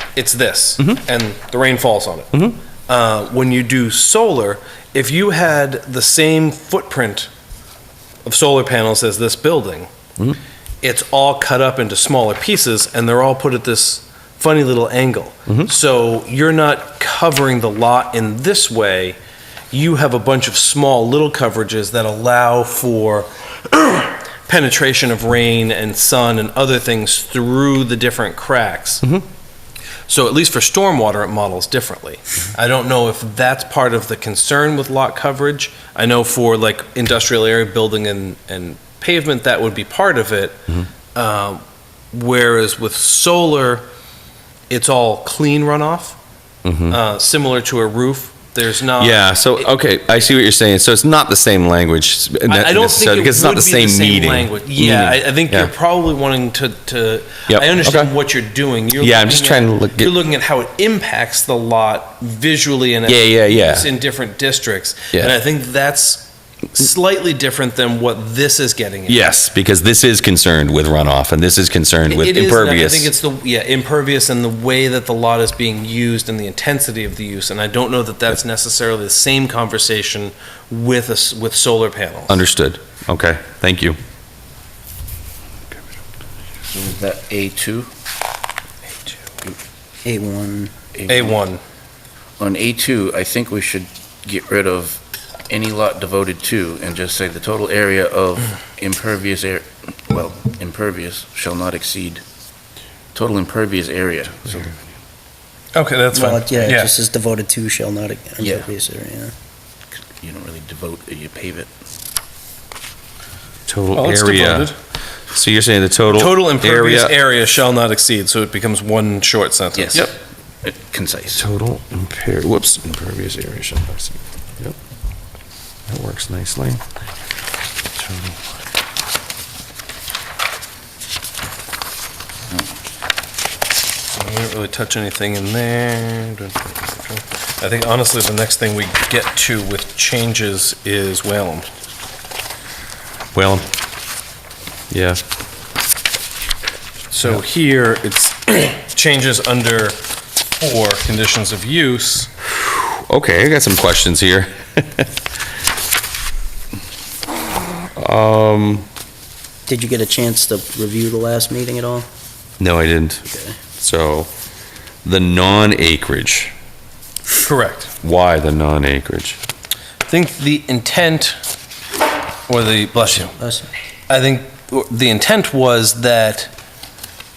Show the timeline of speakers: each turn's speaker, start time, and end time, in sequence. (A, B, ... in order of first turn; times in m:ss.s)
0:00.2-0:07.3 A
0:08.2-0:09.9 A
0:10.8-0:19.2 A
0:19.7-0:29.1 A
0:30.1-0:40.6 A
0:41.1-0:43.9 A
0:44.7-0:46.2 A
0:46.6-0:47.0 B
0:46.9-0:49.7 A
0:49.0-0:55.7 B
0:52.5-1:09.3 A
0:57.5-0:58.1 B
0:59.0-1:00.1 B
1:03.1-1:03.9 B
1:09.1-1:13.1 B
1:12.1-1:22.4 A
1:22.3-1:24.0 B
1:26.7-1:27.9 C
1:30.0-1:30.7 D
1:31.0-1:31.4 C
1:31.1-1:31.6 A
1:32.4-1:42.2 C
1:43.1-1:44.7 C
1:45.8-1:46.9 A
1:46.1-1:49.3 D
1:50.0-1:51.7 C
1:53.7-1:54.7 B
1:53.9-1:54.8 A
1:55.3-1:57.2 B
1:56.1-2:00.1 A
1:59.8-2:00.1 C
2:00.6-2:01.4 C
2:01.3-2:04.8 B
2:05.9-2:06.8 B
2:08.0-2:08.4 B
2:14.2-2:21.7 A
2:23.3-2:23.7 B
2:24.9-2:25.2 B
2:27.1-2:30.0 A
2:30.6-2:32.3 A
2:32.6-2:35.1 B
2:38.0-2:38.9 B
2:39.7-2:42.1 D
2:42.6-2:43.2 B
2:43.3-2:43.6 D
2:43.8-2:44.3 B
2:45.0-2:46.5 B
2:47.3-2:47.9 A
2:48.0-2:49.4 B
2:50.1-2:51.4 A
2:52.5-2:53.4 A
2:53.4-2:53.7 D
2:54.1-2:56.5 A